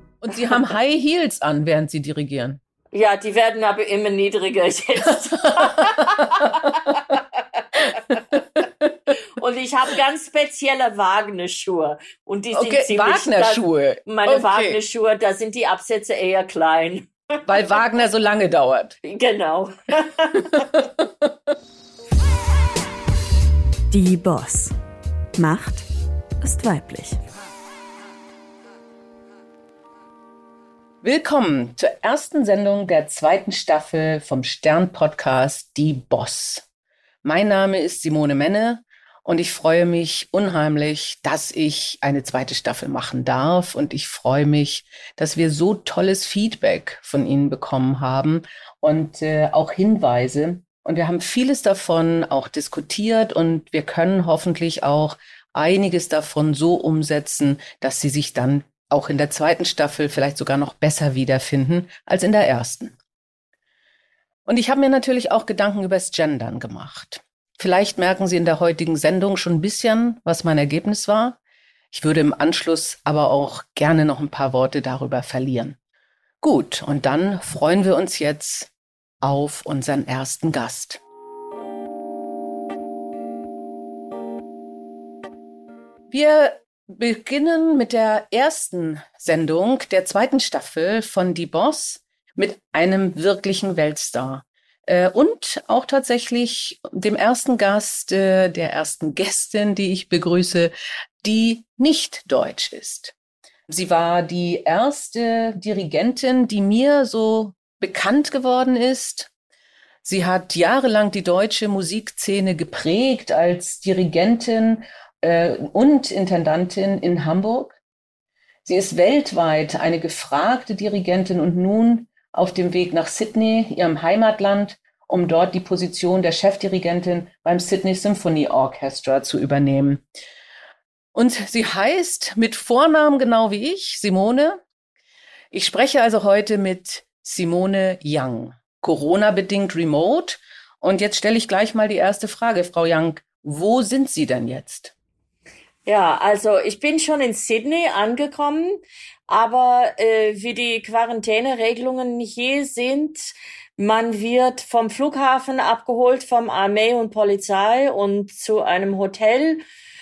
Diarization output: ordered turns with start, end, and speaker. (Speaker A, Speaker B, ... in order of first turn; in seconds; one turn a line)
Speaker A: 0.2-2.6
Speaker B: 2.9-8.0
Speaker A: 5.4-6.9
Speaker A: 8.2-8.9
Speaker B: 9.3-17.4
Speaker A: 12.5-14.8
Speaker A: 17.4-18.9
Speaker B: 19.0-20.7
Speaker A: 20.5-21.5
Speaker C: 23.9-24.7
Speaker C: 25.4-25.9
Speaker C: 26.4-27.2
Speaker A: 31.0-36.6
Speaker A: 37.2-62.9
Speaker A: 64.5-71.4
Speaker A: 71.9-75.8
Speaker A: 76.4-78.7
Speaker A: 79.2-81.0
Speaker A: 86.1-103.1
Speaker A: 103.7-109.3
Speaker A: 110.0-117.8
Speaker A: 118.7-130.0
Speaker A: 131.1-134.6
Speaker A: 135.5-144.9
Speaker B: 145.8-159.6